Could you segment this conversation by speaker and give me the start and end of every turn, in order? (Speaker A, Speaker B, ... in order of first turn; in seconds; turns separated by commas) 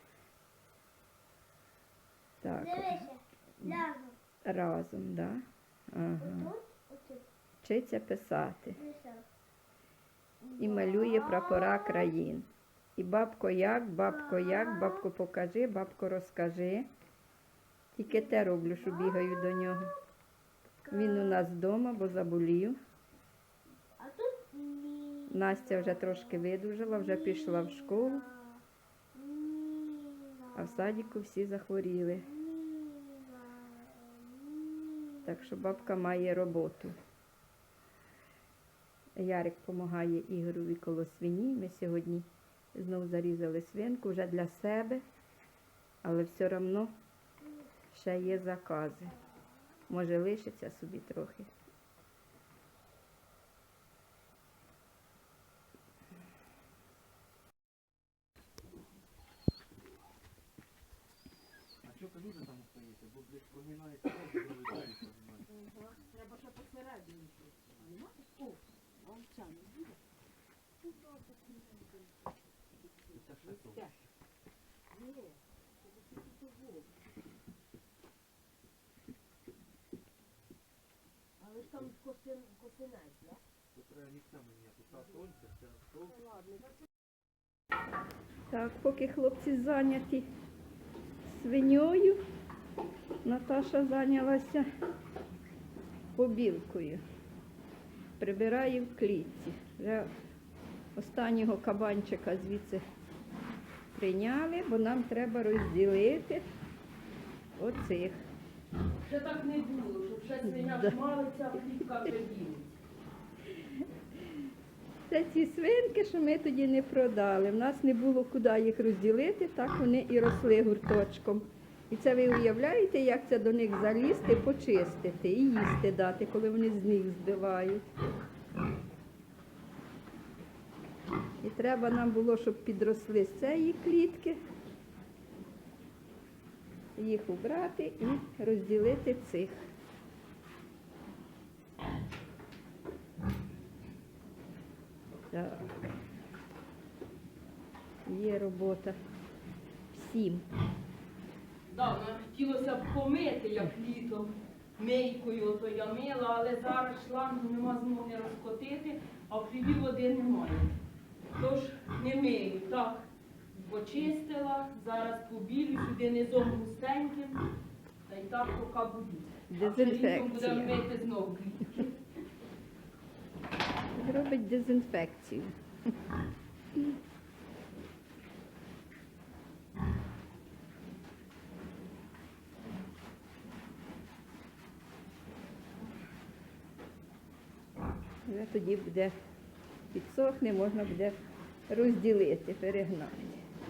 Speaker A: 2.4-3.1, Speaker B: 2.6-4.2, Speaker A: 4.5-6.5, Speaker B: 6.3-7.3, Speaker A: 7.6-8.8, Speaker B: 8.8-9.3, Speaker B: 10.4-11.7, Speaker A: 10.6-16.9, Speaker A: 17.9-19.9, Speaker B: 18.1-19.9, Speaker B: 20.9-21.3, Speaker A: 20.9-22.8, Speaker B: 24.0-26.1, Speaker A: 25.3-28.3, Speaker B: 27.4-27.6, Speaker B: 28.3-28.6, Speaker B: 29.1-30.5, Speaker A: 30.6-32.3, Speaker B: 32.3-35.2, Speaker A: 35.2-37.0, Speaker A: 39.2-45.0, Speaker A: 46.0-46.9, Speaker A: 47.9-49.2, Speaker A: 49.9-51.5, Speaker C: 61.8-65.5, Speaker D: 65.5-70.0, Speaker D: 70.8-72.0, Speaker D: 73.1-74.0, Speaker C: 73.1-73.9, Speaker D: 74.9-76.9, Speaker D: 81.4-83.4, Speaker C: 83.7-86.1, Speaker D: 86.0-86.8, Speaker A: 88.5-90.3, Speaker A: 91.3-92.2, Speaker A: 93.2-94.7, Speaker A: 96.2-97.0, Speaker A: 98.2-100.1, Speaker A: 101.0-102.8, Speaker A: 103.9-106.4, Speaker A: 107.6-108.2, Speaker D: 109.0-112.8, Speaker A: 110.5-111.0, Speaker A: 113.6-113.8, Speaker A: 115.1-127.9, Speaker A: 131.4-134.4, Speaker A: 137.0-139.7, Speaker A: 145.3-145.7, Speaker A: 148.1-149.0, Speaker A: 149.9-150.5, Speaker D: 151.7-160.7, Speaker D: 161.4-167.4, Speaker D: 168.1-172.0, Speaker A: 169.5-170.8, Speaker A: 173.9-175.6, Speaker A: 188.3-189.1, Speaker A: 189.9-193.4